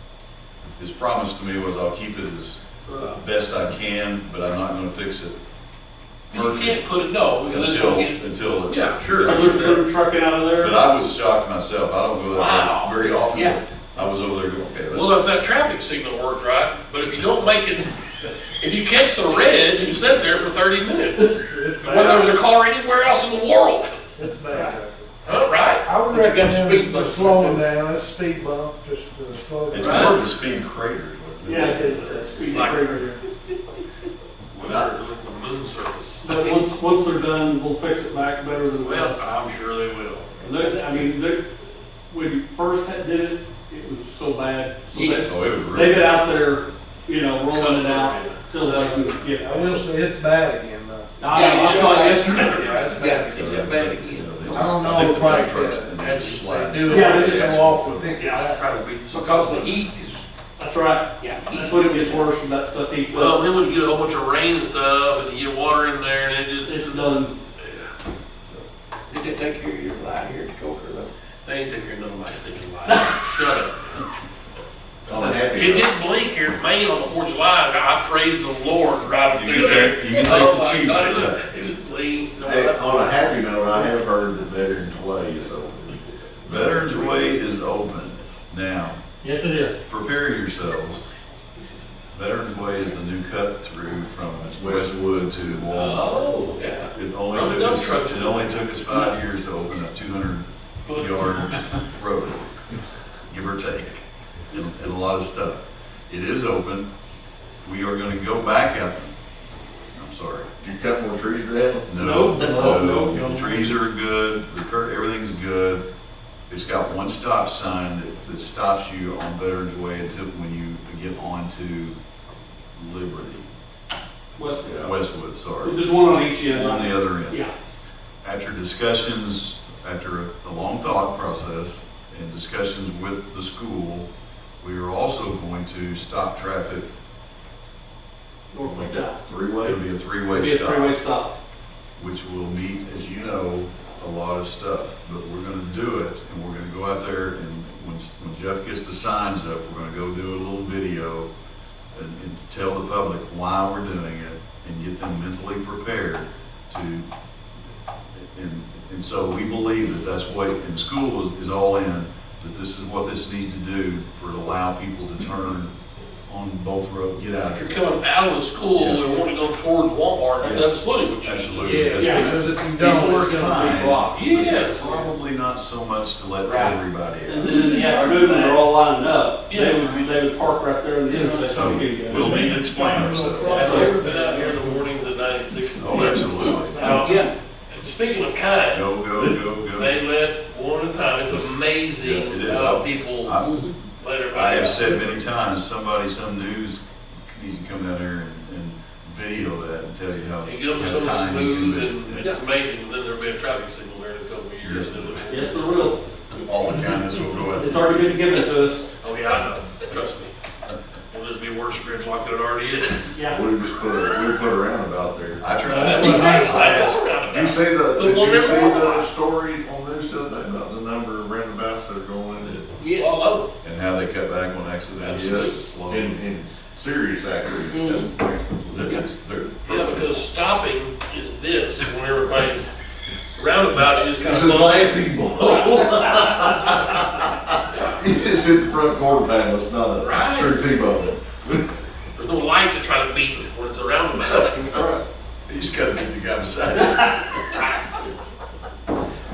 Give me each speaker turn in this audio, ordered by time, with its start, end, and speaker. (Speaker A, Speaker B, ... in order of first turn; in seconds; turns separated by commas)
Speaker A: 0.8-2.6, Speaker B: 2.9-3.2, Speaker A: 3.1-5.4, Speaker A: 6.3-6.8, Speaker B: 6.3-9.8, Speaker A: 7.5-9.8, Speaker C: 9.2-10.8, Speaker A: 10.6-15.2, Speaker B: 12.3-12.9, Speaker B: 14.9-17.9, Speaker B: 18.5-23.9, Speaker D: 21.4-22.4, Speaker D: 24.2-25.1, Speaker B: 25.2-25.9, Speaker D: 25.8-30.2, Speaker E: 26.1-27.6, Speaker A: 29.7-32.1, Speaker B: 29.8-30.2, Speaker C: 31.4-33.2, Speaker B: 31.5-33.1, Speaker B: 34.5-36.6, Speaker C: 36.2-39.2, Speaker B: 38.8-40.4, Speaker C: 40.4-41.5, Speaker C: 42.1-49.8, Speaker E: 44.9-45.3, Speaker A: 45.2-46.2, Speaker B: 47.5-49.1, Speaker D: 49.4-51.3, Speaker C: 51.2-52.5, Speaker E: 51.3-54.6, Speaker B: 51.3-53.0, Speaker D: 52.4-53.7, Speaker A: 53.3-58.2, Speaker D: 54.5-58.7, Speaker B: 56.0-56.4, Speaker C: 56.9-57.6, Speaker B: 58.1-59.8, Speaker E: 59.1-60.2, Speaker C: 60.6-63.4, Speaker E: 61.2-62.2, Speaker B: 63.1-67.0, Speaker C: 66.6-67.3, Speaker B: 67.6-67.9, Speaker E: 69.1-71.1, Speaker B: 71.4-73.9, Speaker F: 75.1-75.9, Speaker B: 75.5-83.0, Speaker A: 79.3-81.4, Speaker F: 82.4-87.2, Speaker A: 86.5-89.0, Speaker A: 89.9-91.0, Speaker E: 91.5-91.8, Speaker A: 92.1-96.2, Speaker F: 94.5-95.6, Speaker B: 95.7-99.1, Speaker A: 96.9-102.4, Speaker B: 100.8-101.6, Speaker A: 103.3-106.9, Speaker A: 107.6-109.1, Speaker A: 109.9-110.5, Speaker F: 110.6-111.9, Speaker A: 111.9-115.8, Speaker C: 112.0-113.3, Speaker D: 113.2-113.7, Speaker A: 116.5-122.0, Speaker A: 122.8-123.5, Speaker C: 124.3-124.8, Speaker F: 124.6-124.9, Speaker A: 124.6-127.5, Speaker C: 125.6-127.5, Speaker A: 128.2-134.1, Speaker A: 134.6-136.9, Speaker C: 138.5-139.2, Speaker F: 138.6-139.8, Speaker A: 139.6-140.9, Speaker C: 140.3-141.3, Speaker A: 142.0-151.3, Speaker A: 151.9-157.1, Speaker A: 158.1-165.7, Speaker A: 166.2-167.8, Speaker B: 167.4-172.1, Speaker A: 168.8-169.0, Speaker A: 170.4-177.5, Speaker D: 171.6-174.1, Speaker C: 172.0-172.3, Speaker B: 174.1-175.0, Speaker B: 176.4-176.8, Speaker C: 177.3-182.6, Speaker B: 179.5-179.9, Speaker E: 181.1-181.5, Speaker A: 181.5-183.8, Speaker D: 182.1-184.9, Speaker C: 183.4-184.0, Speaker B: 183.4-193.4, Speaker A: 185.8-187.1, Speaker D: 185.8-187.3, Speaker E: 186.9-187.3, Speaker A: 188.7-190.0, Speaker A: 191.3-193.8, Speaker B: 193.9-195.2, Speaker A: 194.3-202.3, Speaker B: 200.4-205.9, Speaker A: 204.6-205.3, Speaker C: 205.3-206.0, Speaker A: 206.4-207.9, Speaker C: 207.5-208.9, Speaker B: 209.0-210.3, Speaker B: 211.1-213.1, Speaker C: 213.1-213.4, Speaker F: 213.3-215.6, Speaker A: 215.4-217.2, Speaker B: 215.7-219.3, Speaker D: 215.8-216.3, Speaker C: 215.9-216.5, Speaker F: 217.2-222.7, Speaker B: 222.8-223.5, Speaker E: 222.8-223.2, Speaker A: 223.6-226.2, Speaker B: 225.0-225.6, Speaker F: 225.0-227.9, Speaker E: 227.7-228.1, Speaker A: 227.8-230.2, Speaker B: 229.6-232.8, Speaker B: 233.3-235.6, Speaker F: 234.2-241.7, Speaker B: 237.7-238.0, Speaker B: 239.9-240.6, Speaker B: 242.1-244.6, Speaker C: 244.7-245.0, Speaker A: 245.5-247.6